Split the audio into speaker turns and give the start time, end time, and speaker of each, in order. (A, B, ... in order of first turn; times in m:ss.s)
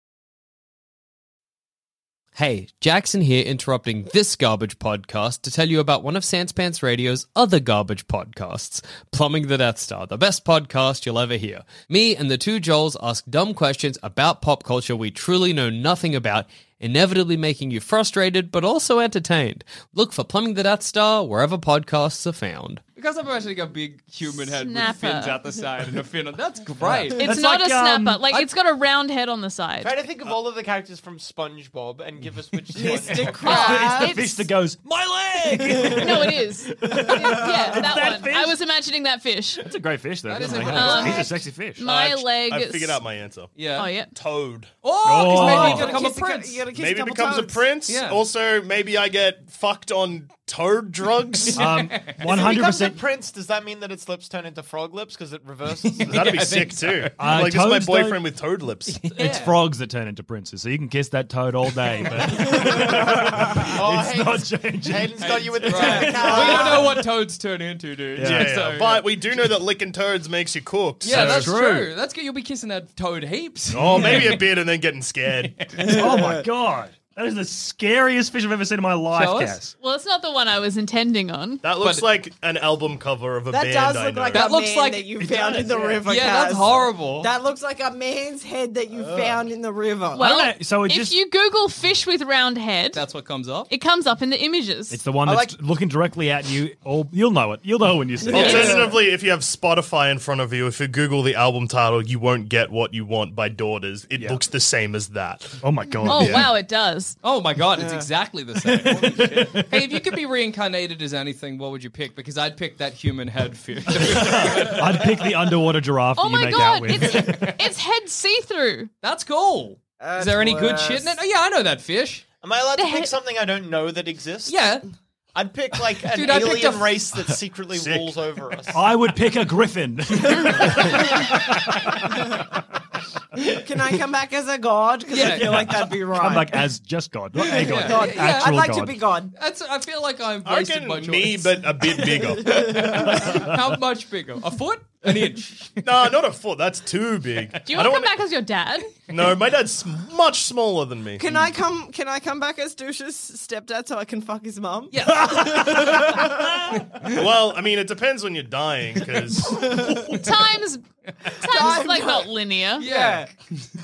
0:02.4-0:27.2 A
0:24.5-0:25.4 B
0:26.8-0:28.5 C
0:27.2-0:29.9 B
0:29.8-0:33.7 D
0:32.7-0:34.4 E
0:33.4-0:34.4 B
0:33.4-0:38.6 C
0:35.6-0:36.0 E
0:35.9-0:39.7 B
0:37.0-0:37.7 E
0:39.6-0:41.9 C
0:40.3-0:41.2 A
0:40.7-0:43.0 B
0:41.8-0:43.5 F
0:43.6-0:43.9 A
0:43.8-0:44.1 B
0:44.1-0:44.7 F
0:44.8-0:46.7 A
0:45.0-0:46.0 C
0:45.2-0:47.7 E
0:46.7-0:51.7 F
0:47.9-0:48.2 A
0:51.5-0:52.2 A
0:51.6-0:53.0 C
0:52.2-0:56.4 D
0:55.9-0:57.2 A
0:56.0-0:59.1 F
0:57.2-0:58.2 C
0:58.9-0:59.6 A
0:59.2-1:06.8 C
1:03.7-1:07.0 D
1:05.2-1:09.0 A
1:05.8-1:06.8 E
1:08.2-1:08.7 C
1:08.2-1:11.6 F
1:11.0-1:14.4 A
1:11.1-1:11.9 C
1:13.7-1:15.7 F
1:13.7-1:14.4 C
1:15.6-1:16.0 A
1:15.8-1:16.5 E
1:15.8-1:19.7 C
1:19.1-1:19.6 A
1:19.8-1:21.6 B
1:21.6-1:24.5 F
1:21.8-1:22.1 A
1:23.5-1:30.3 E
1:24.3-1:27.3 A
1:30.1-1:33.0 B
1:30.2-1:31.2 C
1:32.9-1:33.7 A
1:33.7-1:35.0 B
1:34.9-1:38.9 C
1:35.2-1:35.6 D
1:38.2-1:39.0 E
1:38.3-1:46.4 F
1:38.4-1:38.9 B
1:44.1-1:44.4 C
1:45.6-1:46.5 C
1:46.0-1:47.2 B
1:47.2-1:55.0 A
1:47.8-1:48.1 E
1:48.7-1:49.8 C
1:54.0-1:57.5 C
1:56.2-1:58.9 B
1:57.1-1:57.5 A
1:59.0-2:02.2 A
2:00.0-2:01.2 E
2:02.4-2:04.7 D
2:02.8-2:03.1 B
2:04.5-2:04.9 A
2:05.3-2:08.9 D
2:06.0-2:07.0 A
2:07.7-2:08.2 F
2:08.7-2:12.2 C
2:13.4-2:16.7 E
2:15.1-2:15.9 A
2:15.4-2:19.0 C
2:17.5-2:18.7 A
2:17.6-2:19.3 E
2:19.4-2:21.6 A
2:20.4-2:22.7 F
2:22.4-2:25.9 A
2:22.6-2:23.2 E
2:25.8-2:28.2 F
2:27.7-2:28.9 B
2:29.1-2:31.3 F
2:31.2-2:36.6 E
2:34.9-2:36.3 A
2:35.2-2:36.8 C
2:37.1-2:39.7 F
2:39.7-2:40.2 E
2:40.1-2:40.8 B
2:41.4-2:42.8 B
2:41.4-2:43.3 E
2:42.8-2:43.3 A